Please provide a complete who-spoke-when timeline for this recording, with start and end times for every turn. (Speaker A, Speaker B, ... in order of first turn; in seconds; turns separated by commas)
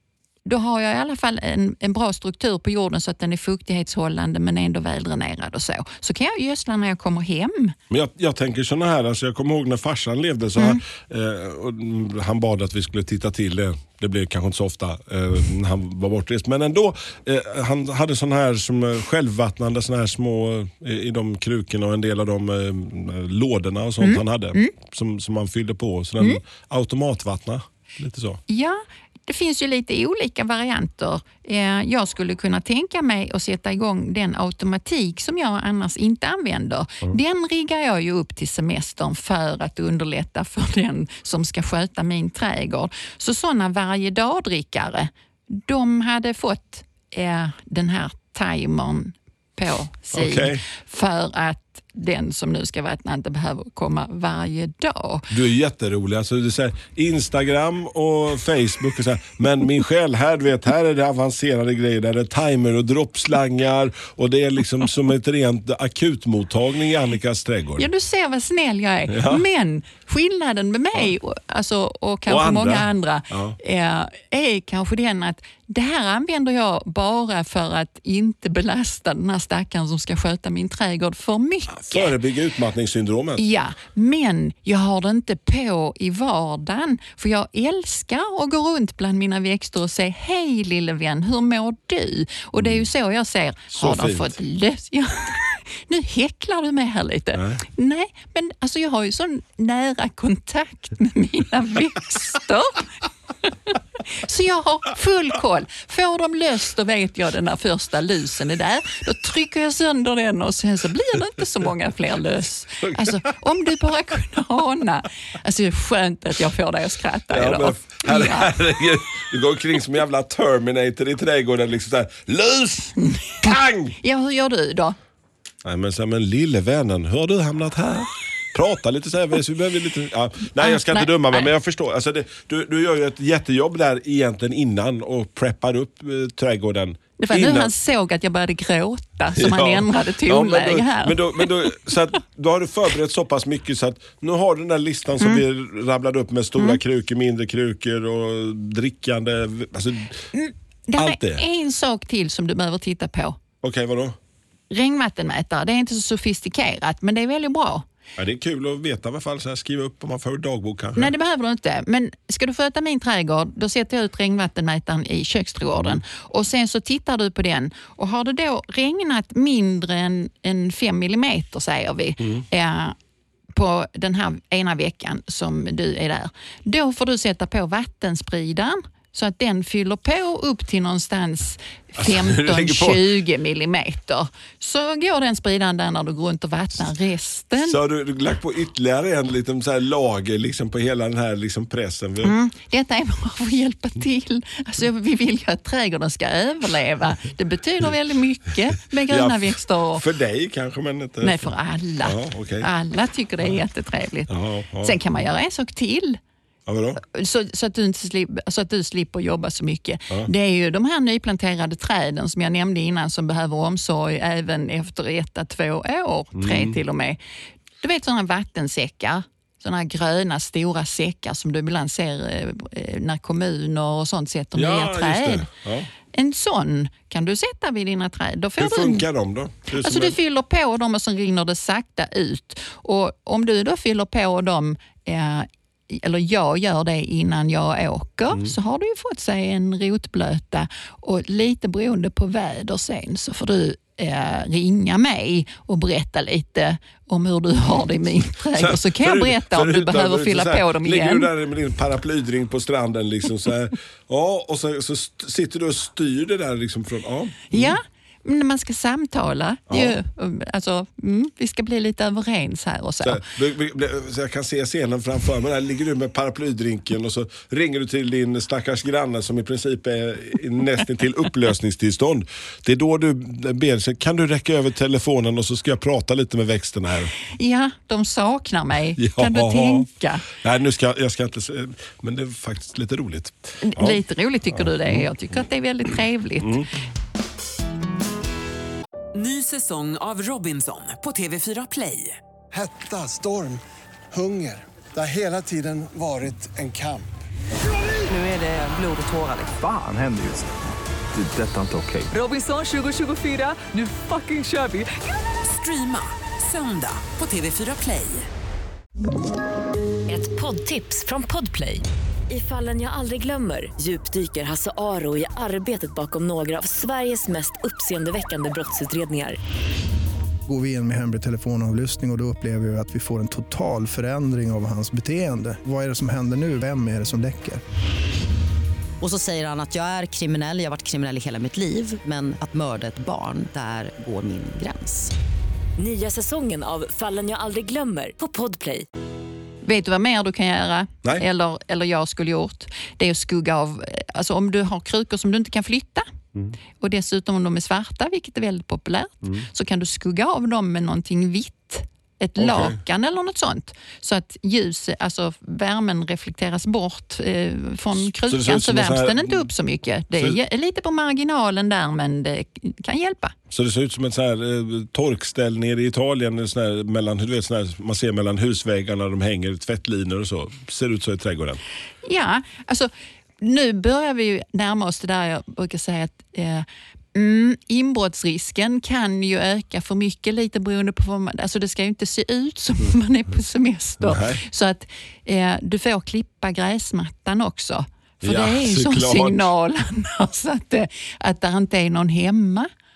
Speaker A: 0.5-7.8, Speaker B: 7.9-28.4, Speaker A: 10.6-10.8, Speaker A: 24.0-24.7, Speaker A: 28.5-55.3, Speaker B: 50.1-50.6, Speaker B: 55.3-67.9, Speaker A: 67.8-82.1, Speaker B: 69.1-69.4, Speaker B: 72.3-73.6, Speaker B: 81.7-83.4, Speaker A: 83.4-102.9, Speaker B: 92.6-92.8, Speaker B: 93.7-94.3, Speaker B: 97.3-97.6, Speaker A: 103.7-118.5, Speaker B: 112.8-113.2, Speaker B: 117.3-124.0, Speaker A: 123.0-125.0, Speaker B: 125.6-137.7, Speaker A: 130.6-131.5, Speaker A: 137.2-141.5, Speaker B: 139.3-150.3, Speaker A: 150.3-153.4, Speaker B: 151.0-151.4, Speaker B: 153.6-154.2, Speaker A: 154.7-157.9, Speaker B: 158.2-161.1, Speaker A: 161.0-172.9, Speaker B: 165.7-166.0, Speaker A: 173.5-187.8, Speaker B: 182.0-183.1, Speaker B: 187.6-192.3, Speaker A: 192.2-200.0, Speaker B: 199.1-202.7, Speaker A: 201.2-206.2, Speaker B: 204.3-205.0, Speaker B: 206.7-207.0, Speaker A: 207.0-217.2, Speaker B: 216.3-216.8, Speaker A: 217.8-225.5, Speaker B: 224.5-225.9, Speaker A: 226.1-229.1, Speaker B: 228.6-230.2, Speaker A: 229.8-251.3, Speaker B: 238.3-238.5, Speaker B: 248.5-257.8, Speaker A: 257.5-263.2, Speaker B: 259.7-260.0, Speaker B: 263.0-277.1, Speaker A: 277.4-280.3, Speaker B: 279.0-285.1, Speaker A: 283.6-286.6, Speaker B: 286.4-286.7, Speaker C: 289.1-292.2, Speaker D: 292.5-293.6, Speaker D: 294.1-297.1, Speaker C: 298.1-299.5, Speaker E: 299.5-300.5, Speaker E: 301.1-302.1, Speaker C: 302.1-308.3, Speaker F: 310.1-319.4, Speaker G: 320.5-327.6, Speaker H: 329.0-335.1, Speaker F: 335.8-338.9, Speaker A: 339.6-346.1, Speaker A: 346.8-363.3, Speaker B: 352.4-352.8, Speaker B: 358.0-359.5, Speaker B: 363.5-371.6, Speaker A: 372.0-392.7, Speaker B: 384.0-384.4, Speaker B: 388.2-389.5